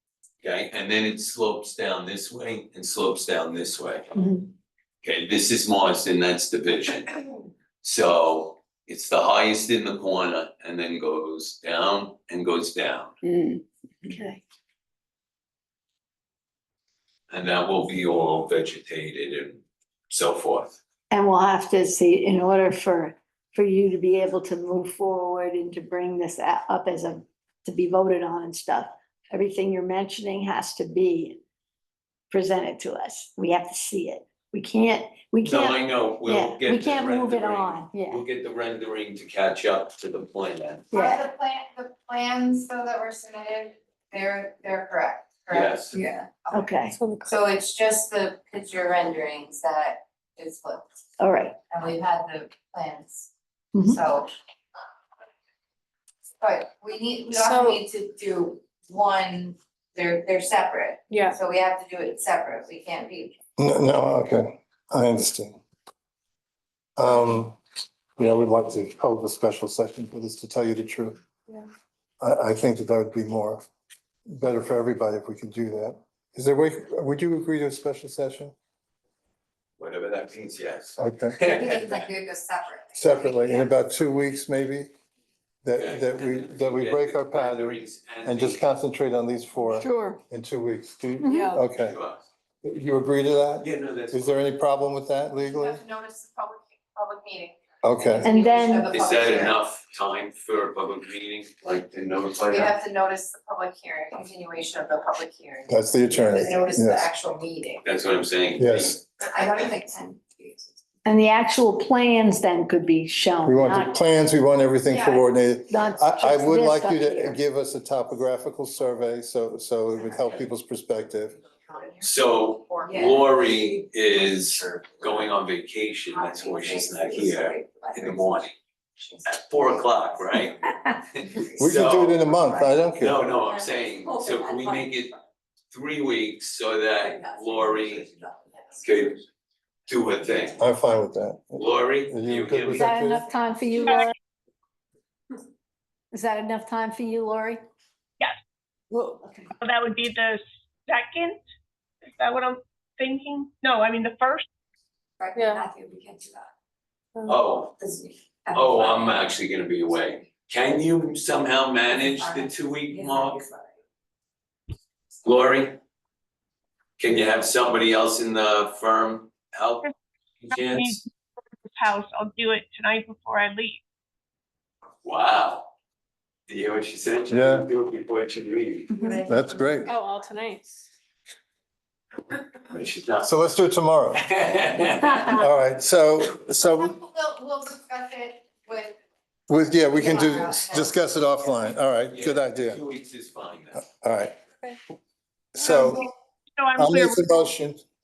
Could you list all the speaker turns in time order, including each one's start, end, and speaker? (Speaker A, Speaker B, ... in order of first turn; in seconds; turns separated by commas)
Speaker A: 0.4-4.1, Speaker B: 4.2-4.5, Speaker A: 5.0-7.2, Speaker A: 7.8-13.2, Speaker B: 14.0-14.4, Speaker A: 17.3-20.8, Speaker B: 21.1-31.4, Speaker B: 32.3-38.2, Speaker A: 35.4-40.9, Speaker B: 40.9-41.3, Speaker C: 40.9-51.0, Speaker A: 45.5-46.0, Speaker B: 46.5-47.0, Speaker D: 46.9-47.4, Speaker B: 51.2-51.5, Speaker C: 51.7-53.3, Speaker B: 53.7-54.0, Speaker C: 53.8-54.3, Speaker C: 56.4-63.4, Speaker D: 57.3-57.8, Speaker D: 61.1-61.4, Speaker E: 63.6-65.6, Speaker E: 67.0-67.6, Speaker E: 68.2-71.2, Speaker E: 72.2-73.6, Speaker E: 74.3-78.5, Speaker A: 79.8-82.1, Speaker E: 81.0-81.4, Speaker C: 81.4-83.7, Speaker E: 83.0-84.9, Speaker E: 85.6-92.0, Speaker A: 85.8-88.6, Speaker B: 89.7-90.2, Speaker B: 91.2-91.6, Speaker A: 91.8-92.2, Speaker E: 92.6-95.8, Speaker A: 93.6-94.4, Speaker C: 95.5-99.6, Speaker E: 97.8-98.3, Speaker B: 98.2-99.0, Speaker A: 98.9-102.8, Speaker C: 102.5-107.8, Speaker E: 105.7-107.1, Speaker A: 107.8-109.0, Speaker E: 108.6-109.0, Speaker C: 109.2-110.8, Speaker B: 111.0-114.0, Speaker E: 113.4-121.4, Speaker C: 114.9-115.2, Speaker B: 115.7-117.4, Speaker C: 120.1-120.4, Speaker C: 121.4-125.3, Speaker A: 122.0-128.6, Speaker C: 126.1-130.5, Speaker A: 129.2-132.3, Speaker C: 131.2-135.0, Speaker E: 131.6-133.2, Speaker A: 133.0-135.1, Speaker A: 135.7-138.1, Speaker C: 137.0-138.8, Speaker A: 138.8-139.2, Speaker A: 139.9-140.6, Speaker E: 140.6-143.3, Speaker A: 141.6-142.9, Speaker B: 142.7-144.1, Speaker F: 143.8-144.1, Speaker B: 146.1-147.6, Speaker B: 148.9-149.5, Speaker F: 149.6-151.4, Speaker F: 152.1-154.5, Speaker C: 155.2-156.5, Speaker D: 155.3-155.7, Speaker A: 157.2-157.8, Speaker C: 157.8-160.3, Speaker A: 158.5-163.4, Speaker C: 162.0-163.7, Speaker A: 165.2-165.8, Speaker A: 167.0-169.9, Speaker A: 170.4-171.0, Speaker F: 170.6-171.1, Speaker F: 171.8-173.8, Speaker A: 175.0-175.7, Speaker A: 176.5-179.0, Speaker E: 177.3-177.7, Speaker C: 178.9-179.9, Speaker E: 179.2-179.9, Speaker D: 179.8-180.9, Speaker A: 182.7-183.3, Speaker E: 183.2-184.2, Speaker A: 184.2-185.5, Speaker E: 185.3-187.0, Speaker C: 186.6-189.0, Speaker E: 189.5-192.8, Speaker C: 189.9-191.0, Speaker A: 192.1-193.8, Speaker E: 193.8-194.3, Speaker E: 195.5-196.1, Speaker F: 196.6-197.4, Speaker E: 196.8-197.8